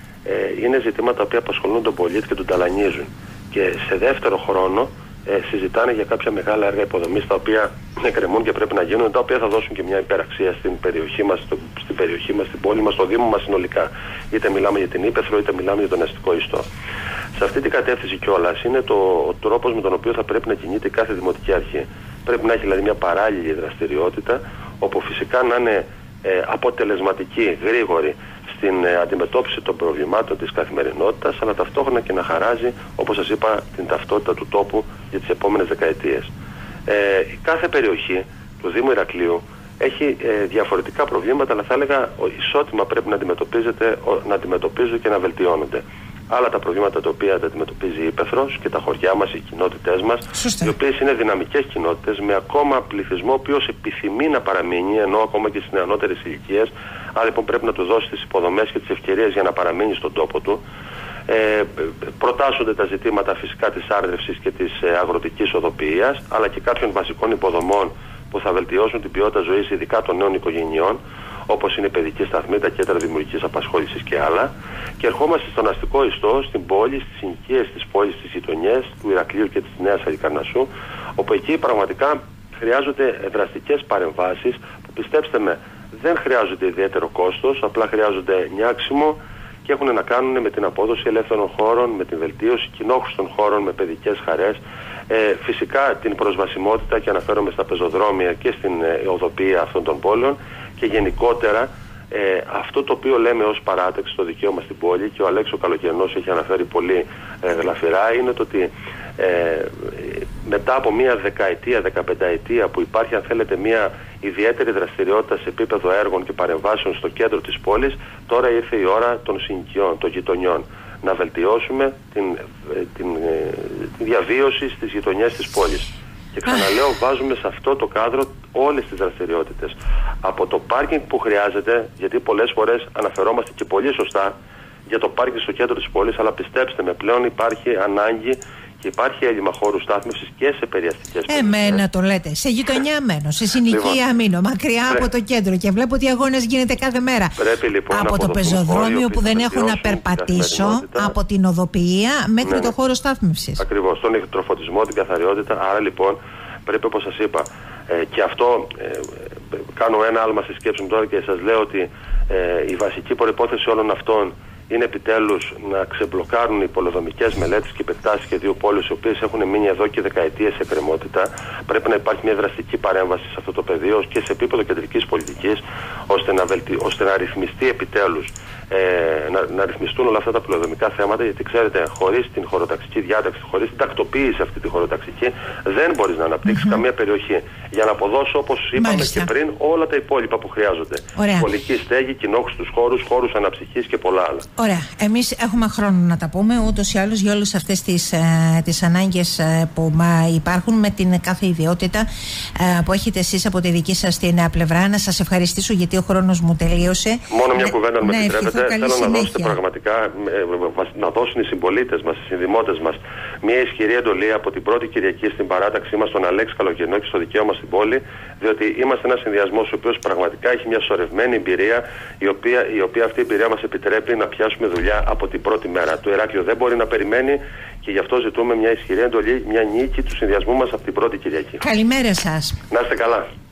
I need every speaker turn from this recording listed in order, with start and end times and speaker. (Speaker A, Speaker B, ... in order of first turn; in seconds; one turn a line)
Speaker A: 0.2-16.7
Speaker A: 17.4-36.3
Speaker A: 36.9-60.6
Speaker B: 50.4-50.7
Speaker A: 61.3-134.3
Speaker A: 134.9-141.8
Speaker B: 141.3-147.4
Speaker A: 143.6-144.0
Speaker A: 147.4-151.2
Speaker B: 147.9-153.6
Speaker A: 152.4-152.7
Speaker A: 153.6-194.5
Speaker B: 186.5-186.8
Speaker B: 188.8-189.3
Speaker B: 191.2-191.5
Speaker B: 194.6-209.6
Speaker A: 207.3-231.6
Speaker B: 231.6-232.6
Speaker A: 232.7-233.3